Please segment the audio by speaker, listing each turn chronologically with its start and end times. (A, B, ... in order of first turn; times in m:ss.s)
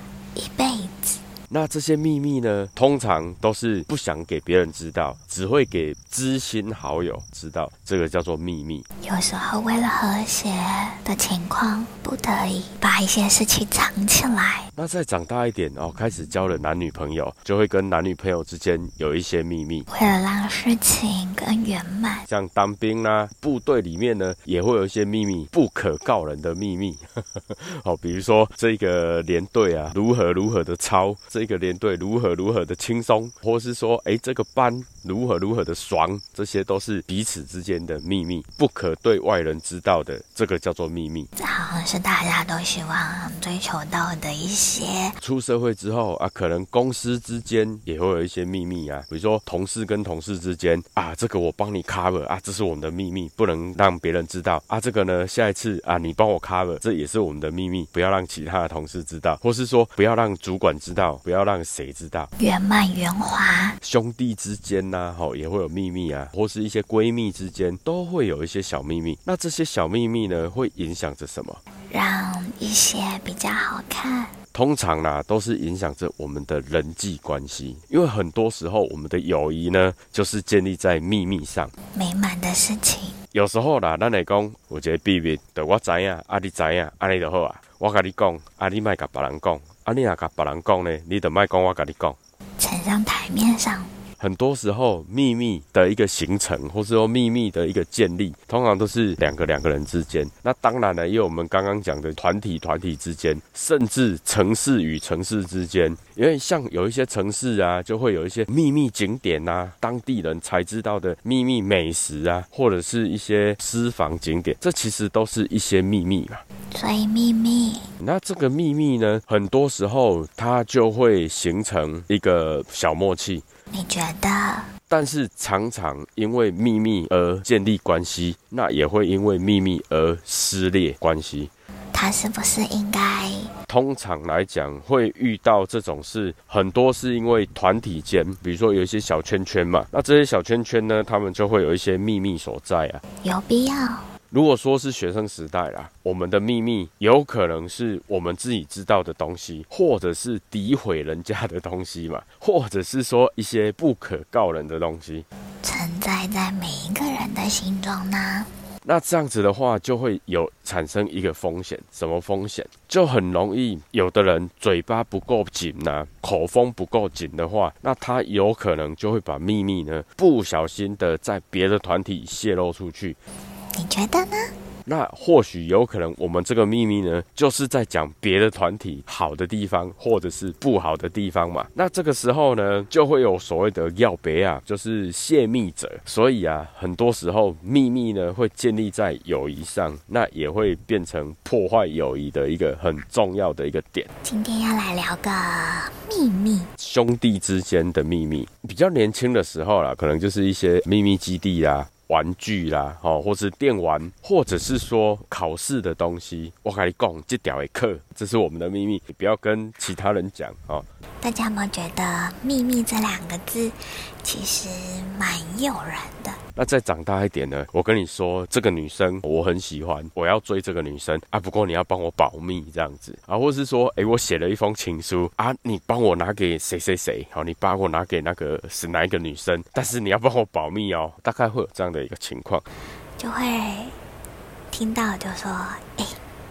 0:00.3-0:01.2 A
0:01.5-0:08.8 B
0:09.0-0:14.7 A
0:14.8-0:19.9 B
0:19.9-0:22.3 A
0:22.3-0:41.3 B
0:41.4-0:45.2 A
0:45.2-1:02.3 B
1:02.4-1:03.8 A
1:03.8-1:11.6 B
1:11.9-1:14.3 A
1:14.5-1:21.7 B
1:21.9-1:23.2 A
1:23.3-1:32.2 B
1:32.6-1:33.9 A
1:34.2-1:56.4 B
1:56.7-1:57.9 A
1:58.0-2:03.4 B
2:03.7-2:04.7 A
2:04.9-2:11.5 B
2:11.9-2:13.5 A
2:13.7-2:23.0 B
2:23.2-2:24.1 A
2:24.3-2:35.2 B
2:35.6-2:38.5 A
2:38.8-2:53.2 B
2:53.8-2:54.5 A
2:54.9-3:14.1 B
3:14.2-3:16.7 A
3:16.8-3:30.9 B
3:31.2-3:36.4 A
3:36.6-3:52.6 B
3:53.2-3:54.0 A
3:54.7-3:56.2 A